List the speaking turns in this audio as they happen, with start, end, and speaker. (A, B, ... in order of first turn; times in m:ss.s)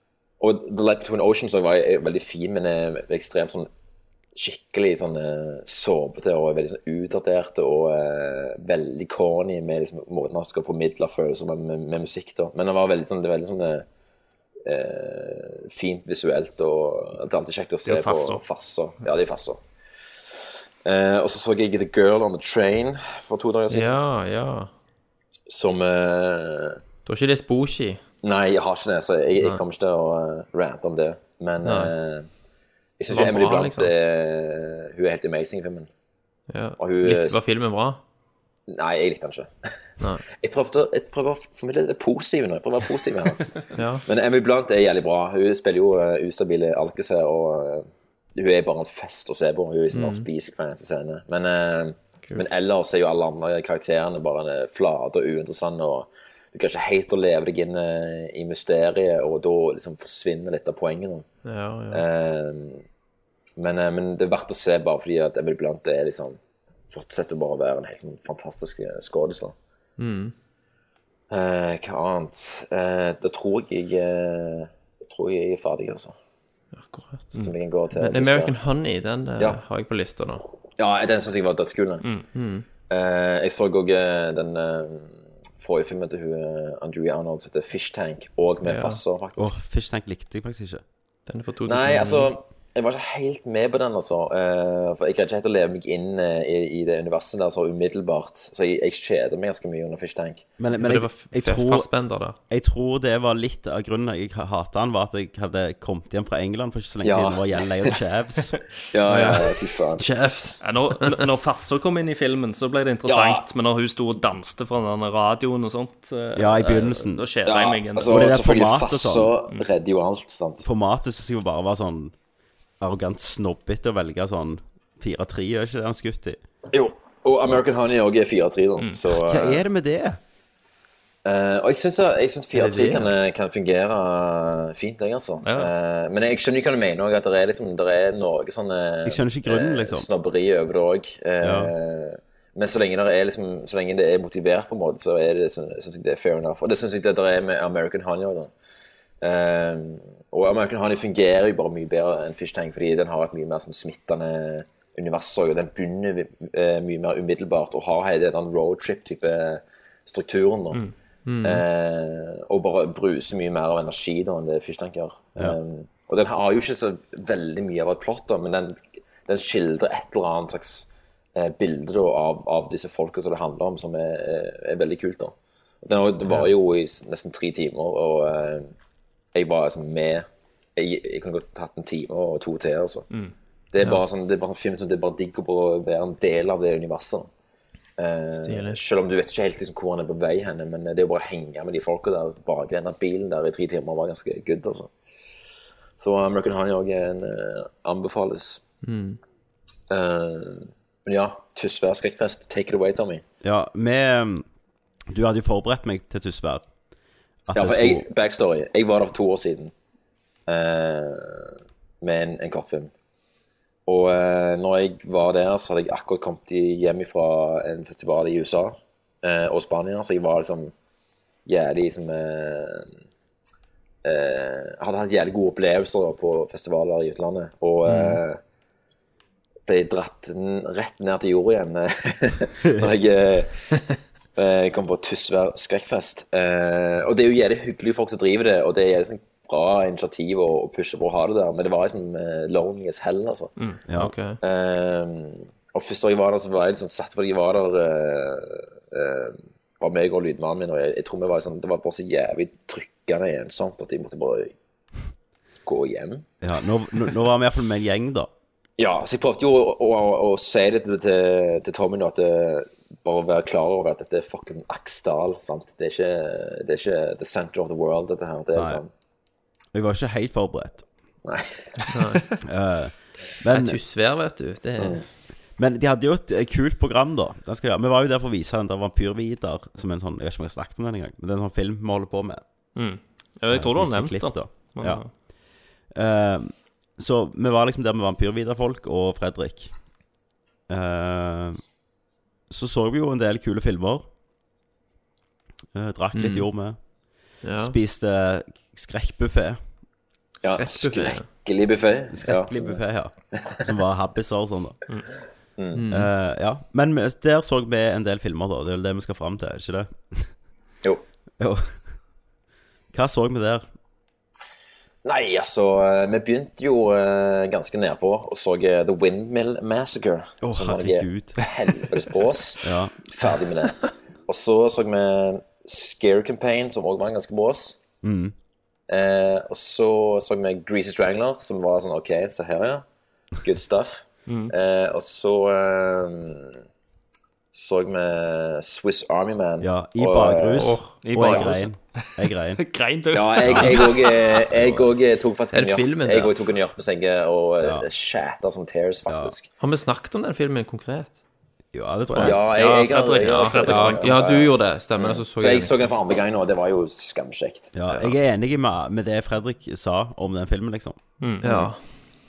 0:00.4-0:03.7 A
0:04.3-0:13.8 A
0:14.6-0:19.6 A
0:17.8-0:18.4 B
0:20.8-0:24.0 A
0:23.7-0:24.7 C
0:25.5-0:26.8 A
0:27.0-0:28.0 C
0:28.2-0:32.2 A
0:31.6-0:31.9 C
0:33.0-0:35.9 A
0:33.1-0:33.9 C
0:36.5-0:38.0 C
0:36.8-0:37.4 A
0:38.7-0:39.5 A
0:40.3-0:43.5 A
0:43.7-0:44.0 C
0:44.1-1:01.2 A
0:49.9-0:50.3 C
1:01.4-1:02.0 C
1:01.9-1:02.8 A
1:03.6-1:06.4 A
1:06.9-1:09.5 A
1:10.0-1:10.3 C
1:11.3-1:16.1 A
1:16.8-1:17.3 C
1:17.4-1:18.5 A
1:18.0-1:20.4 C
1:20.8-1:22.0 A
1:22.3-1:22.6 C
1:22.9-1:29.5 A
1:28.6-1:29.0 C
1:29.4-1:30.8 D
1:31.3-1:32.3 C
1:31.6-1:40.5 A
1:40.6-1:41.9 D
1:40.8-1:42.4 C
1:42.5-1:48.6 D
1:47.0-1:47.6 A
1:48.9-1:50.0 A
1:49.1-1:51.2 C
1:50.6-1:58.1 B
1:53.1-1:53.4 A
1:56.4-1:57.2 D
1:57.4-2:00.6 A
1:58.1-1:59.3 D
2:00.6-2:02.1 D
2:02.8-2:06.4 D
2:06.7-2:09.6 A
2:09.2-2:10.2 D
2:11.2-2:28.5 A
2:12.5-2:13.1 C
2:15.4-2:15.7 B
2:19.0-2:20.1 D
2:21.4-2:21.7 D
2:29.2-2:40.8 A
2:41.2-2:41.6 C
2:41.4-2:58.7 A
2:59.3-3:00.2 A
3:00.8-3:03.0 A
3:03.7-3:07.3 A
3:08.0-3:14.9 A
3:08.3-3:08.8 C
3:16.0-3:18.6 A
3:18.8-3:19.2 C
3:19.9-3:23.2 A
3:23.4-3:24.4 D
3:25.1-3:26.7 D
3:27.5-3:28.0 D
3:27.5-3:29.7 A
3:30.5-3:32.9 A
3:33.9-3:40.7 A
3:41.4-3:42.9 A
3:44.0-3:48.4 A
3:47.9-3:48.2 C
3:49.6-3:53.6 A
3:54.4-4:03.5 A
4:03.9-4:04.1 D
4:03.9-4:04.4 C
4:04.4-4:14.5 A
4:15.6-4:16.3 A
4:16.4-4:18.3 D
4:18.8-4:28.9 A
4:29.7-4:30.8 D
4:31.2-4:31.8 A
4:31.9-4:32.2 C
4:32.4-4:33.8 D
4:33.5-4:35.0 C
4:35.6-4:42.4 D
4:42.7-4:45.1 B
4:43.5-4:45.3 D
4:45.9-4:49.7 D
4:50.7-4:51.6 D
4:52.5-4:54.1 D
4:55.7-4:56.8 D
4:56.1-4:56.5 C
4:57.4-4:57.8 C
4:57.6-4:59.6 D
5:00.4-5:02.8 A
5:00.4-5:01.3 C
5:02.1-5:04.8 D
5:03.3-5:03.6 A
5:05.7-5:06.1 C
5:05.9-5:10.3 D
5:11.4-5:11.8 D
5:12.9-5:13.6 D
5:15.0-5:27.8 A
5:20.4-5:21.4 D
5:22.6-5:22.9 D
5:28.0-5:28.3 D
5:28.9-5:32.8 A
5:33.4-5:36.6 A
5:34.3-5:34.5 B
5:37.5-5:40.8 A
5:39.6-5:42.6 D
5:40.6-5:41.5 C
5:41.0-5:41.7 B
5:42.6-5:44.2 B
5:43.1-5:49.5 A
5:43.4-5:43.8 D
5:44.6-5:44.8 D
5:45.5-5:46.3 C
5:49.6-5:51.2 C
5:51.7-5:52.4 D
5:52.2-5:57.7 A
5:52.4-5:54.2 B
5:53.2-5:55.9 C
5:57.7-6:01.0 D
5:57.9-5:58.2 C
6:01.2-6:01.5 B
6:01.4-6:01.8 C